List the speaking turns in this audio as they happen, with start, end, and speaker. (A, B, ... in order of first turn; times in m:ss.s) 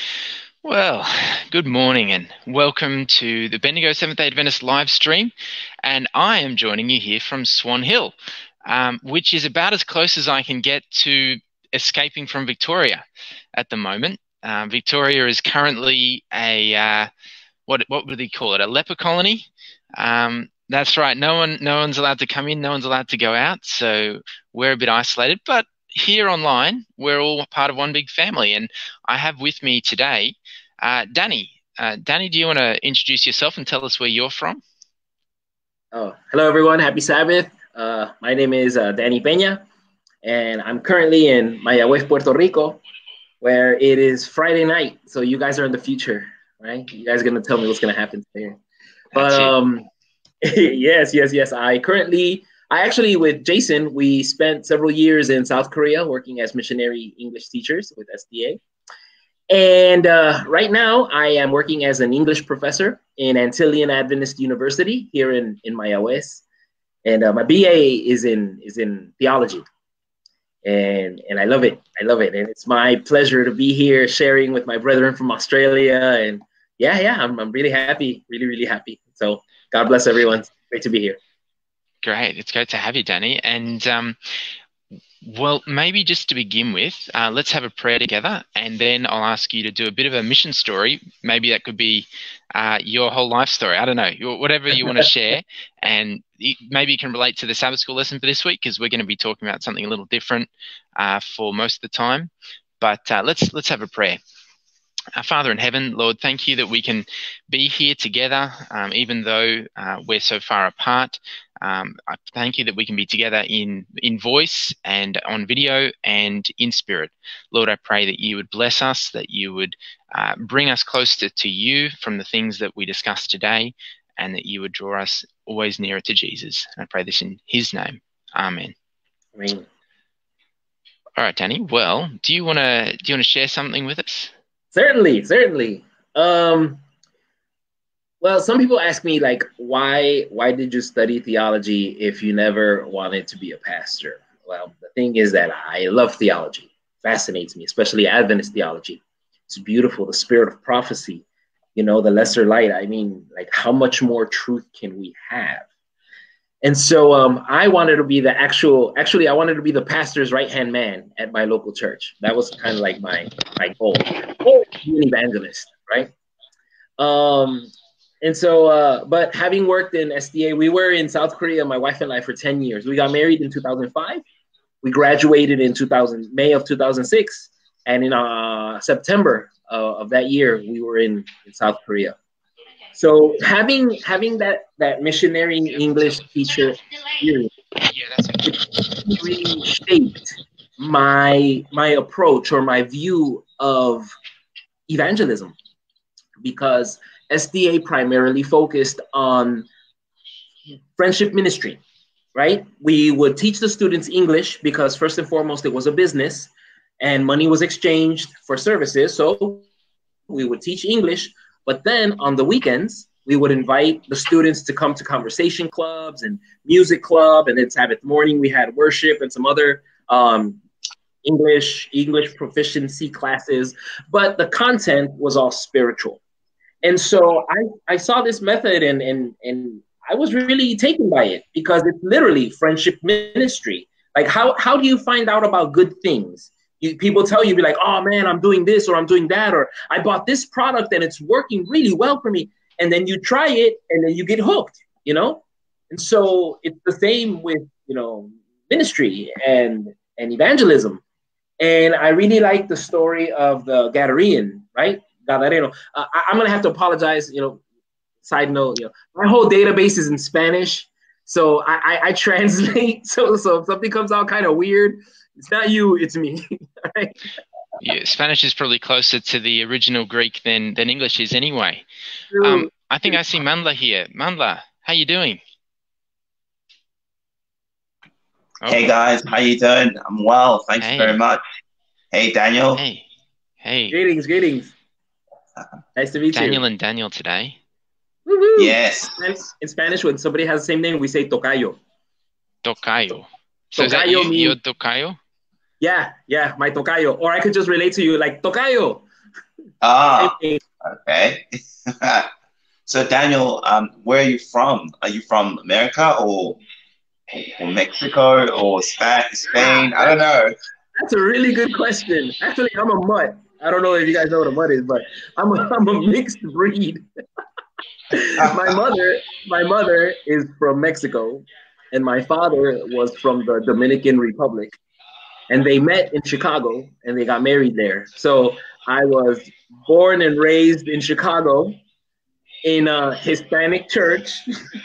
0:00.6-0:05.3 A
0:05.8-0:08.1 A
0:08.6-0:13.0 A
0:13.5-0:17.1 A
0:17.7-0:34.6 A
0:35.9-0:39.6 B
0:40.2-0:42.8 B
0:43.4-0:48.6 B
0:49.1-0:49.5 A
0:49.1-0:49.9 B
0:50.4-0:58.6 B
0:59.5-1:06.4 B
1:07.0-1:09.6 B
1:10.6-1:21.2 B
1:22.0-1:24.4 A
1:25.2-1:42.3 A
1:42.8-1:44.2 A
1:45.2-2:08.7 A
2:09.4-2:09.6 B
2:11.2-2:14.3 A
2:14.7-2:16.8 B
2:18.2-2:31.2 B
2:31.8-2:35.7 B
2:36.6-2:46.1 B
2:47.0-2:47.7 B
2:48.2-2:54.2 B
2:54.8-3:02.2 B
3:02.9-3:07.5 B
3:08.4-3:14.1 B
3:14.9-3:15.5 B
3:16.4-3:19.7 B
3:21.0-3:21.8 B
3:22.3-3:29.7 B
3:30.3-3:40.6 B
3:41.2-3:46.2 B
3:46.8-4:11.0 B
4:11.6-4:17.6 B
4:18.2-4:27.2 B
4:27.8-4:31.8 A
4:32.3-4:33.1 B
4:32.4-4:35.4 A
4:38.6-4:38.9 A
4:38.7-4:41.4 C
4:40.8-4:41.2 A
4:42.1-4:42.8 C
4:42.7-4:43.0 A
4:43.6-4:44.0 A
4:43.9-4:44.7 B
4:46.0-4:46.6 B
4:46.3-4:47.6 A
4:48.3-4:51.8 B
4:48.6-4:49.2 C
4:52.6-4:55.2 A
4:53.8-4:54.6 B
4:55.8-4:59.0 B
4:59.8-5:02.3 C
5:00.2-5:00.6 B
5:02.9-5:06.6 C
5:07.3-5:10.6 C
5:09.5-5:10.1 B
5:11.0-5:17.0 B
5:18.1-5:24.8 B
5:18.4-5:18.7 C
5:25.5-5:31.8 B
5:32.6-5:34.5 B